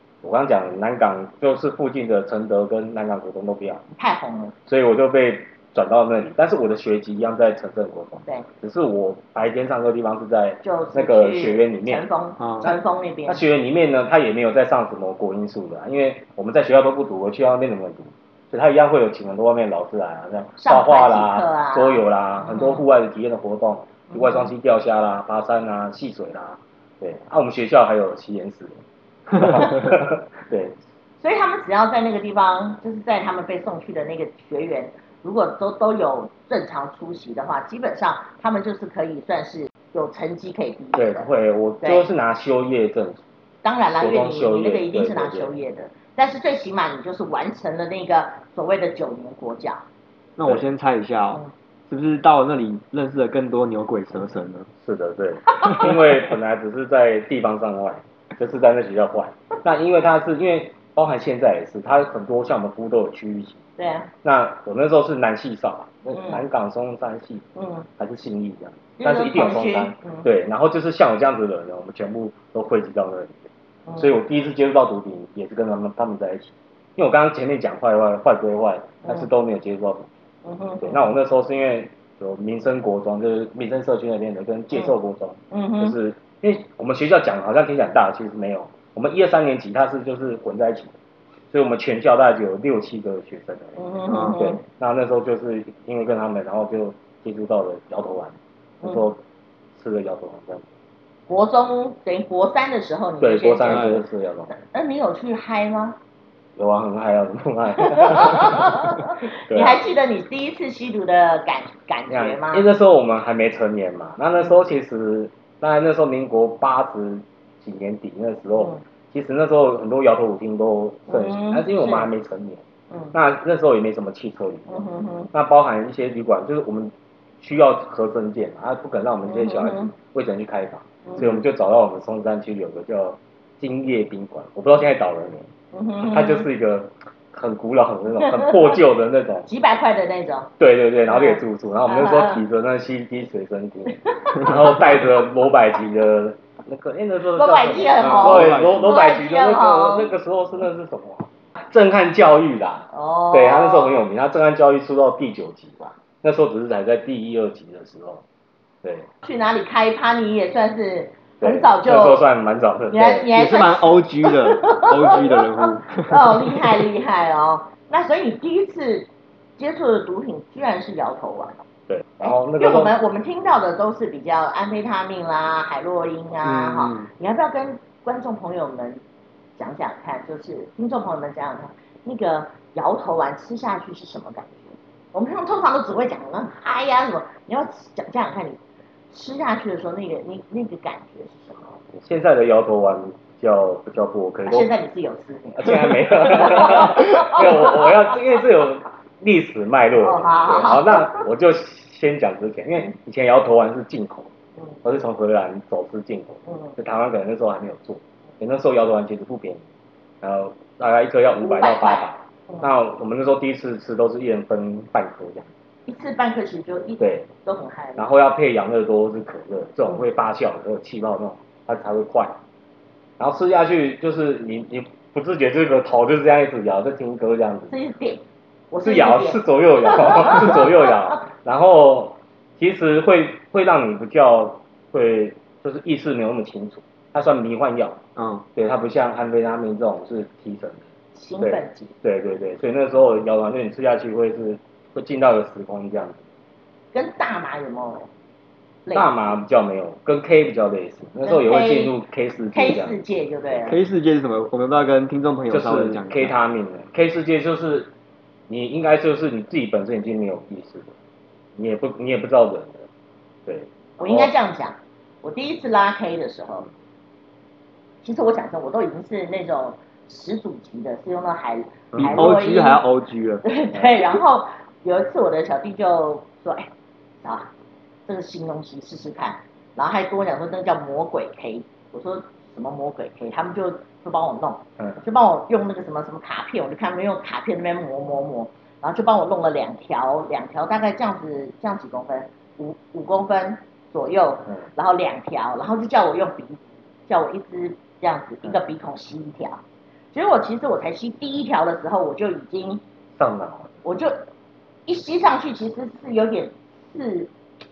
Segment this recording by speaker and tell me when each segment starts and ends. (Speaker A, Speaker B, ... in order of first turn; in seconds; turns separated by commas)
Speaker A: 0.2-3.8, Speaker B: 4.0-4.5, Speaker A: 4.7-12.1, Speaker B: 10.6-13.4, Speaker A: 12.6-30.8, Speaker B: 20.6-22.8, Speaker B: 24.1-24.5, Speaker B: 31.2-41.3, Speaker A: 40.9-43.2, Speaker B: 43.6-49.8, Speaker A: 44.0-45.6, Speaker C: 50.4-54.7, Speaker A: 54.8-63.6, Speaker B: 63.8-64.1, Speaker A: 64.2-67.4, Speaker B: 66.1-66.4, Speaker B: 67.6-67.9, Speaker A: 68.0-80.1, Speaker B: 69.0-70.3, Speaker B: 80.4-81.2, Speaker A: 80.8-90.9, Speaker B: 85.5-85.9, Speaker A: 91.5-99.2, Speaker B: 93.8-94.6, Speaker A: 99.8-100.6, Speaker B: 101.3-104.0, Speaker A: 103.2-104.5, Speaker B: 104.5-106.0, Speaker A: 106.6-109.8, Speaker B: 107.8-112.7, Speaker A: 112.1-139.5, Speaker B: 121.1-122.1, Speaker B: 124.7-125.3, Speaker B: 129.3-129.9, Speaker B: 135.7-136.5, Speaker B: 138.3-138.7, Speaker B: 139.5-140.5, Speaker A: 140.6-158.2, Speaker B: 141.1-142.4, Speaker B: 144.1-144.7, Speaker B: 147.3-150.1, Speaker C: 148.0-149.0, Speaker B: 152.9-154.0, Speaker A: 158.8-159.1, Speaker B: 159.2-162.2, Speaker A: 161.4-163.3, Speaker B: 162.9-165.4, Speaker C: 163.3-166.8, Speaker B: 166.0-171.6, Speaker A: 171.9-172.9, Speaker B: 172.2-179.0, Speaker C: 176.4-177.1, Speaker B: 179.6-188.6, Speaker B: 189.1-191.8, Speaker A: 191.9-194.7, Speaker B: 194.5-197.9, Speaker A: 195.6-204.3, Speaker B: 200.0-201.2, Speaker A: 204.8-209.6, Speaker B: 206.5-206.7, Speaker A: 210.2-215.5, Speaker B: 211.4-212.6, Speaker B: 215.9-218.1, Speaker A: 217.0-217.3, Speaker A: 218.0-222.4, Speaker A: 223.2-227.8, Speaker B: 227.7-230.9, Speaker A: 228.8-238.0, Speaker C: 238.2-238.4, Speaker A: 238.6-240.8, Speaker B: 241.1-241.9, Speaker A: 241.4-246.2, Speaker B: 246.9-248.1, Speaker B: 248.8-249.4, Speaker A: 248.9-253.0, Speaker B: 251.2-252.0, Speaker B: 252.5-253.8, Speaker C: 253.7-256.3, Speaker A: 255.5-257.9, Speaker A: 258.5-260.9, Speaker A: 261.6-262.9, Speaker A: 263.5-264.3, Speaker B: 264.0-266.7, Speaker B: 268.0-272.8, Speaker A: 271.9-272.2, Speaker C: 272.0-273.4, Speaker B: 273.4-276.7, Speaker B: 277.2-277.5, Speaker B: 278.1-299.6, Speaker B: 300.1-302.8, Speaker A: 303.2-303.8, Speaker B: 303.9-304.2, Speaker B: 304.9-307.3